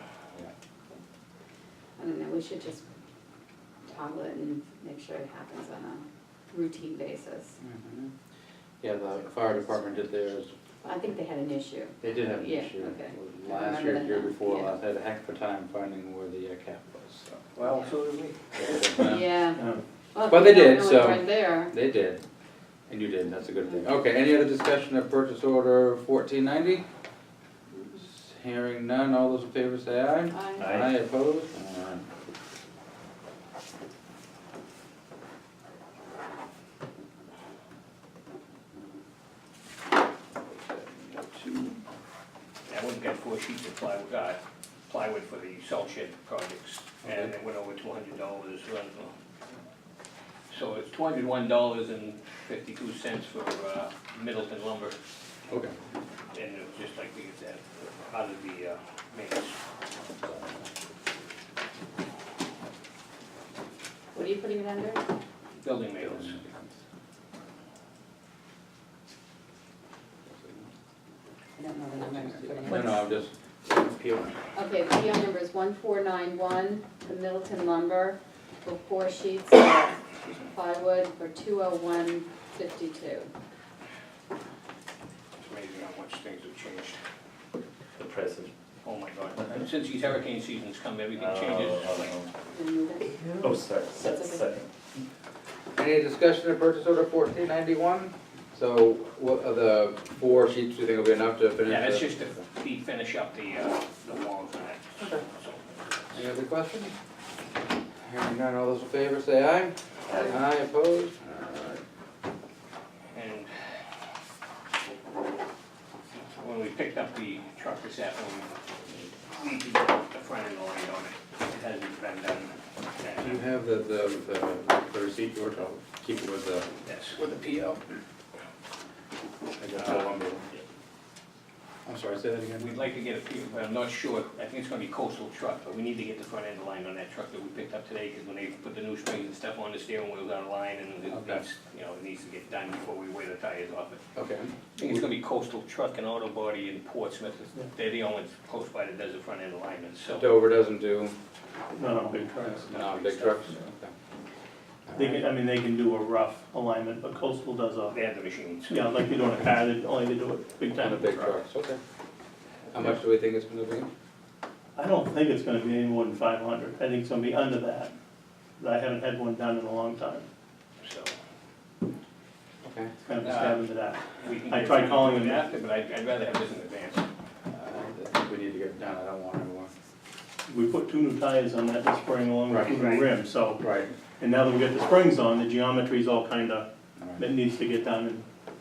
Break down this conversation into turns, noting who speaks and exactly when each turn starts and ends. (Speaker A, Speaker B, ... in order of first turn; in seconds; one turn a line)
Speaker A: 2.0-2.8
Speaker A: 3.9-7.6
Speaker B: 7.6-8.1
Speaker B: 8.8-10.6
Speaker A: 10.8-14.7
Speaker B: 12.0-17.8
Speaker C: 17.6-18.4
Speaker B: 18.6-19.3
Speaker A: 19.0-21.7
Speaker B: 20.2-22.2
Speaker B: 22.9-26.9
Speaker B: 28.0-32.0
Speaker A: 30.3-30.8
Speaker D: 30.6-30.9
Speaker B: 40.5-41.8
Speaker C: 42.7-49.1
Speaker B: 47.0-47.3
Speaker C: 50.5-55.0
Speaker B: 55.5-55.7
Speaker C: 56.3-59.6
Speaker B: 60.2-60.6
Speaker A: 64.1-65.0
Speaker C: 65.6-66.4
Speaker B: 66.0-66.7
Speaker B: 70.3-70.7
Speaker A: 71.6-73.0
Speaker B: 72.1-74.4
Speaker A: 74.5-83.3
Speaker C: 85.4-87.0
Speaker D: 88.0-88.5
Speaker C: 88.8-92.2
Speaker D: 91.2-92.3
Speaker A: 92.5-93.5
Speaker D: 93.3-94.7
Speaker A: 94.1-94.4
Speaker B: 95.8-102.3
Speaker C: 101.7-105.8
Speaker B: 105.0-105.2
Speaker B: 106.1-106.9
Speaker B: 108.0-111.8
Speaker C: 113.1-113.7
Speaker C: 116.4-118.5
Speaker C: 119.3-123.4
Speaker B: 123.2-126.7
Speaker C: 126.8-127.3
Speaker B: 127.2-127.8
Speaker B: 129.6-130.4
Speaker B: 131.9-132.7
Speaker C: 132.6-144.0
Speaker B: 141.1-141.4
Speaker B: 144.2-144.5
Speaker C: 144.8-150.3
Speaker B: 150.2-151.2
Speaker E: 151.7-152.8
Speaker B: 152.4-153.9
Speaker C: 152.7-153.5
Speaker B: 154.9-155.2
Speaker E: 154.9-158.0
Speaker C: 157.9-158.9
Speaker E: 158.7-161.3
Speaker B: 160.7-161.8
Speaker B: 162.7-163.9
Speaker E: 164.8-167.9
Speaker E: 168.6-170.3
Speaker C: 170.8-171.2
Speaker B: 172.7-172.9
Speaker E: 173.1-175.4
Speaker C: 173.2-173.7
Speaker C: 174.2-177.1
Speaker B: 177.5-179.7
Speaker E: 180.5-183.7
Speaker B: 182.5-182.9
Speaker C: 182.7-183.1
Speaker B: 183.5-183.9
Speaker E: 184.2-188.2